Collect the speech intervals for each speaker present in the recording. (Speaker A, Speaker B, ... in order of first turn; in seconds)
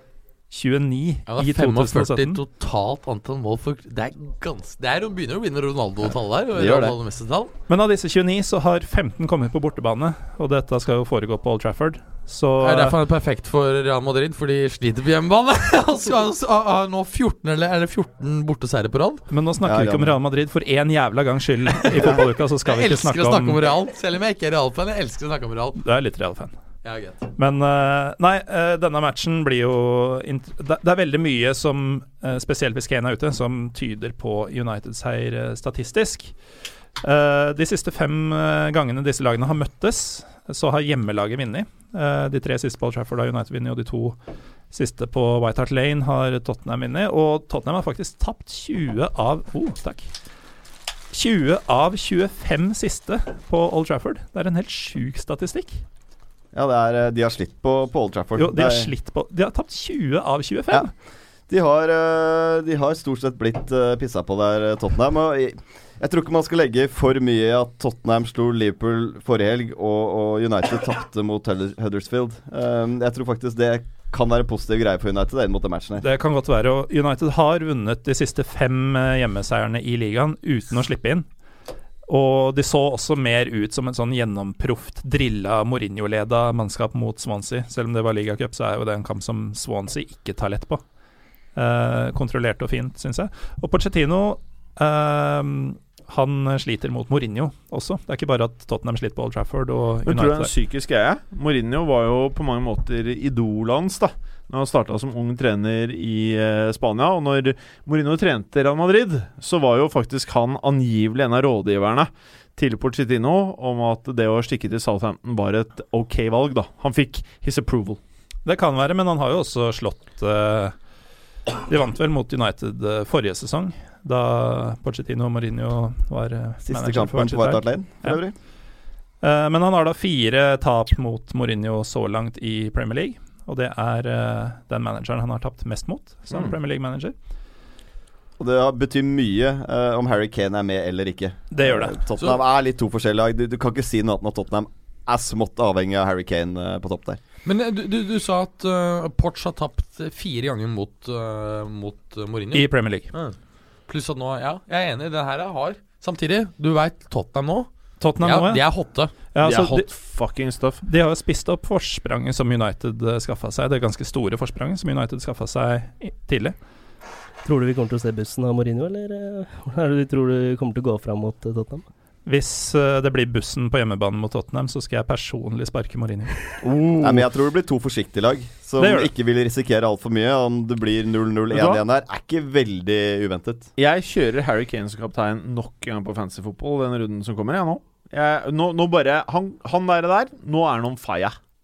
Speaker A: 0.5-2.4, 7.7-13.0, 19.3-23.6, 25.8-26.5, 27.4-36.3, 37.0-44.2, 44.7-50.1, 51.1-55.8, 58.4-60.9, 76.0-81.3, 82.1-90.8, 91.5-100.5, 118.4-120.7, 121.7-128.2, 129.2-137.1, 141.5-142.0, 152.5-153.1, 158.0-158.6, 159.3-159.9, 160.8-166.6, 172.2-176.6, 178.8-179.1
Speaker B: 1.3-7.5, 12.6-19.2, 21.8-25.8, 26.8-27.3, 147.4-153.3, 153.9-159.1
Speaker C: 6.5-7.0, 19.6-20.1, 56.5-58.9, 61.5-76.0, 126.6-128.3, 138.4-147.2, 177.0-183.7
Speaker D: 100.0-118.0, 159.4-160.8, 176.6-177.2, 181.5-181.8, 183.8-191.3
Speaker E: 167.4-171.8